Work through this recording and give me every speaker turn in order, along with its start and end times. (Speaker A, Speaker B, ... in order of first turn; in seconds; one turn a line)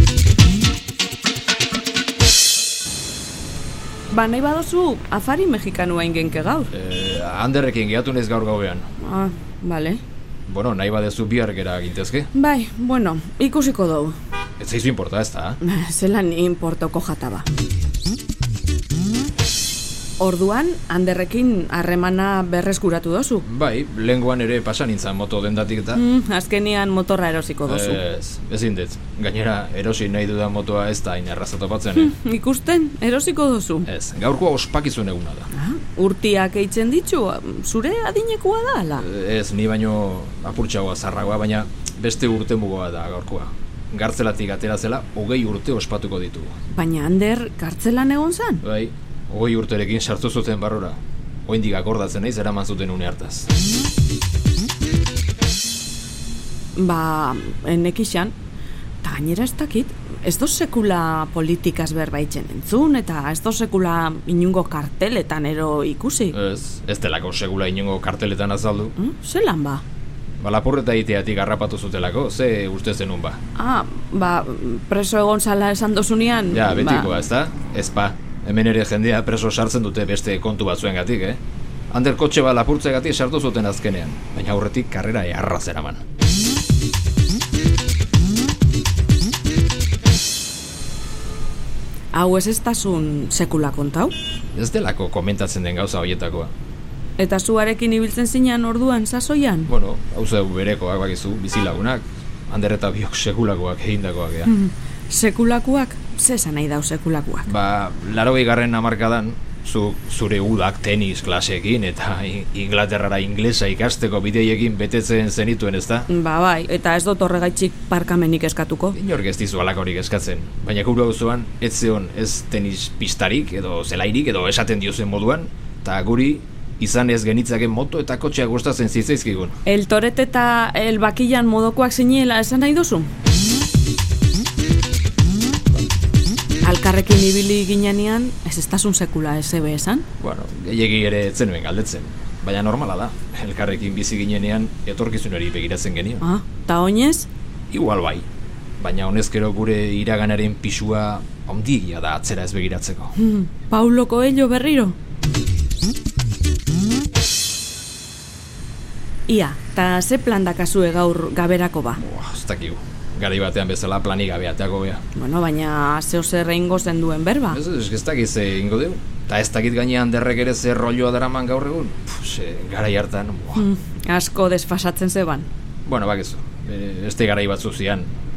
Speaker A: 4.1-6.7
Speaker B: 6.7-8.9
Speaker A: 9.0-10.0
Speaker B: 10.5-12.3
Speaker A: 12.3-14.2
Speaker B: 14.6-15.6
Speaker A: 15.6-17.5
Speaker A: 20.2-23.4
Speaker B: 23.4-26.0
Speaker A: 25.9-28.0
Speaker B: 27.7-32.1
Speaker A: 32.0-33.9
Speaker B: 33.9-35.5
Speaker A: 35.5-39.0
Speaker B: 39.0-46.5
Speaker A: 46.7-48.6
Speaker B: 48.6-53.5
Speaker A: 56.8-58.4
Speaker A: 59.0-66.4
Speaker B: 66.3-68.9
Speaker A: 69.0-69.8
Speaker B: 70.4-73.4
Speaker A: 73.5-77.1
Speaker B: 76.5-81.4
Speaker B: 81.9-86.0
Speaker A: 92.1-94.1
Speaker B: 94.5-96.5
Speaker A: 97.2-99.7
Speaker B: 99.7-104.5
Speaker A: 104.5-107.5
Speaker B: 107.5-116.1
Speaker A: 116.1-119.0
Speaker B: 118.9-129.6
Speaker A: 129.7-133.1
Speaker A: 136.6-140.1
Speaker B: 140.2-146.2
Speaker A: 146.2-147.3
Speaker B: 147.7-148.3
Speaker B: 148.8-153.2
Speaker A: 153.2-155.0
Speaker A: 159.3-162.0
Speaker B: 162.0-165.0
Speaker A: 165.1-167.6
Speaker B: 167.5-173.7
Speaker A: 173.6-175.5
Speaker B: 175.8-178.1